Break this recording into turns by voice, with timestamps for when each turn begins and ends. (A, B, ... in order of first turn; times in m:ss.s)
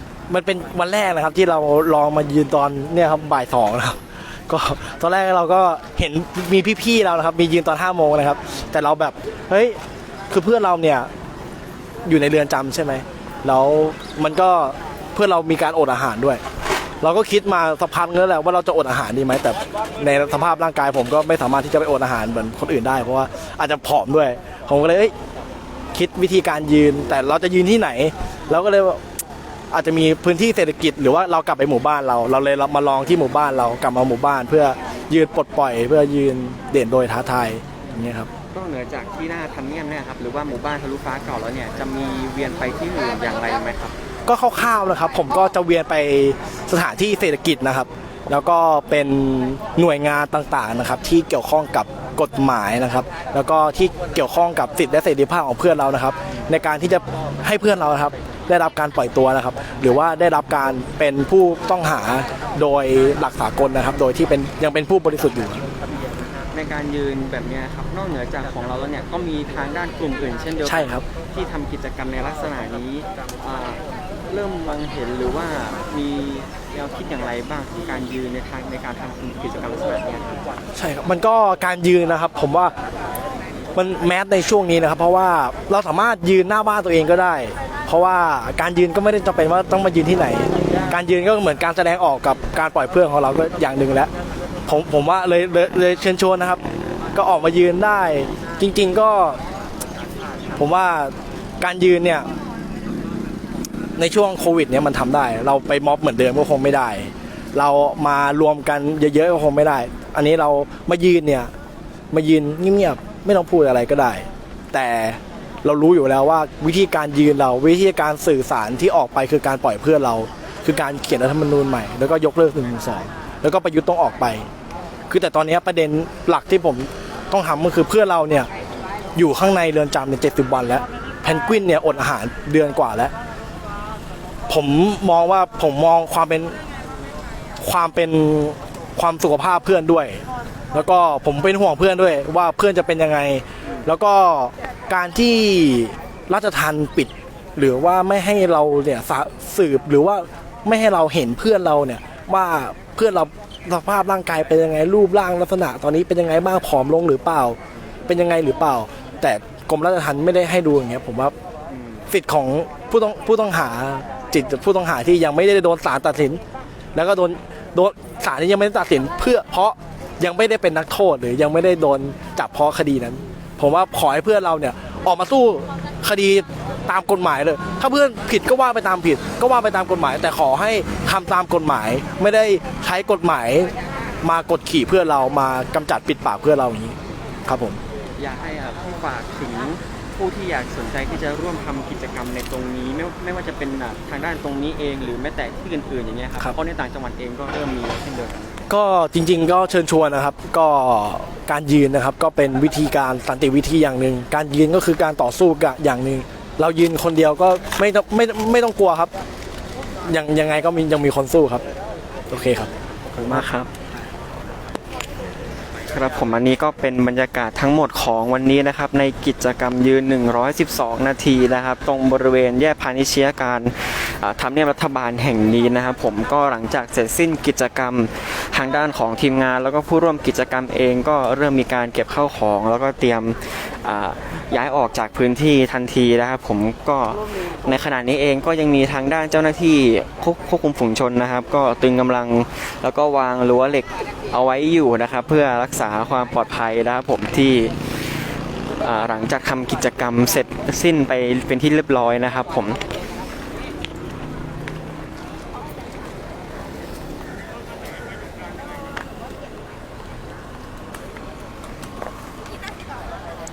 0:00.3-0:09.8 A
0:10.3-0:11.1 A
0:12.1-0:16.4 A
0:17.0-0:25.1 A
0:25.9-0:29.0 A
0:29.7-0:38.3 A
0:37.8-0:44.0 B
0:44.3-1:05.6 A
1:06.5-1:20.5 B
1:10.6-1:11.0 A
1:20.8-1:22.7 A
1:23.8-1:34.1 A
1:34.7-1:36.6 A
1:37.2-1:39.4 A
1:40.6-1:42.3 A
1:44.0-1:51.5 A
1:52.1-2:04.5 A
2:05.1-2:08.5 A
2:09.2-2:13.1 A
2:14.5-2:16.6 A
2:17.6-2:41.4 A
2:41.7-2:42.1 B
2:42.1-2:46.4 A
2:47.0-3:03.7 A
3:04.2-3:07.8 A
3:08.2-3:18.6 B
3:18.7-3:29.1 A
3:30.1-3:31.6 A
3:32.3-3:32.7 A
3:33.1-3:33.7 B
3:35.9-4:07.8 B
4:08.8-4:12.8 B